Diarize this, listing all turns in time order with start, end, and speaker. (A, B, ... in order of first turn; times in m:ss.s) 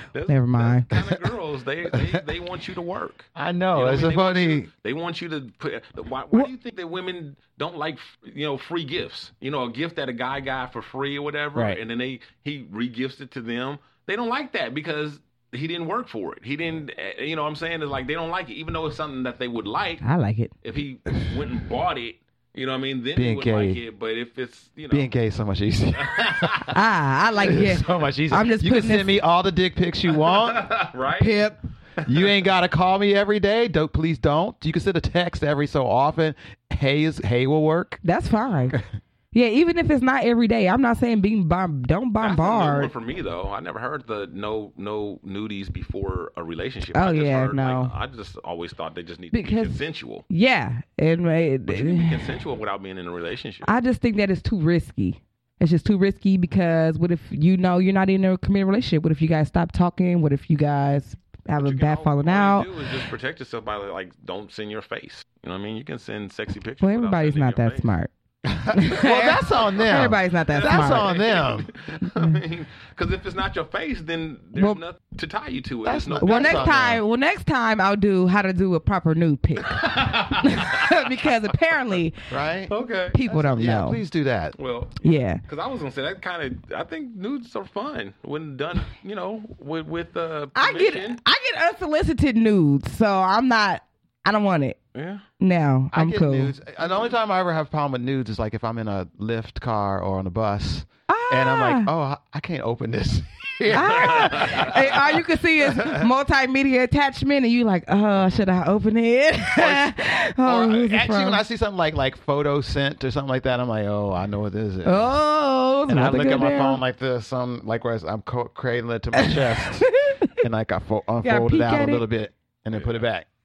0:00.1-0:20.0 A
0:00.3-0:00.9 B
0:03.4-0:04.7 C
0:11.5-0:11.8 C
0:20.0-0:20.5 B
0:20.6-0:25.1 A
0:23.2-0:23.8 C
0:24.9-0:26.7 C
0:26.0-0:26.7 A
0:26.7-0:29.2 B
0:27.4-0:30.7 C
0:30.2-0:31.4 A
0:31.2-0:31.6 B
0:32.0-0:32.3 A
0:32.0-0:38.0 C
0:38.0-0:38.8 B
0:39.3-0:42.9 B
0:42.2-0:50.2 A
0:47.0-0:47.9 B
0:49.3-0:52.3 B
0:51.7-0:53.7 A
0:53.6-1:02.7 B
1:01.6-1:07.9 A
1:06.8-1:08.1 B
1:08.4-1:11.7 C
1:08.7-1:11.1 B
1:10.5-1:16.7 A
1:15.8-1:17.0 C
1:16.2-1:22.2 B
1:19.7-1:21.0 A
1:22.3-1:22.7 C
1:22.7-1:23.2 A
1:23.1-1:24.0 B
1:23.3-1:24.6 C
1:24.6-1:31.2 A
1:25.0-1:25.4 B
1:30.6-1:34.8 B
1:34.9-1:35.2 A
1:35.4-1:36.5 B
1:35.9-1:46.1 C
1:41.1-1:41.9 B
1:43.7-1:51.4 B
1:49.6-1:55.1 C
1:54.8-1:56.8 B
1:55.9-2:03.3 C
1:59.2-2:00.3 B
2:01.2-2:02.0 B
2:02.7-2:03.0 A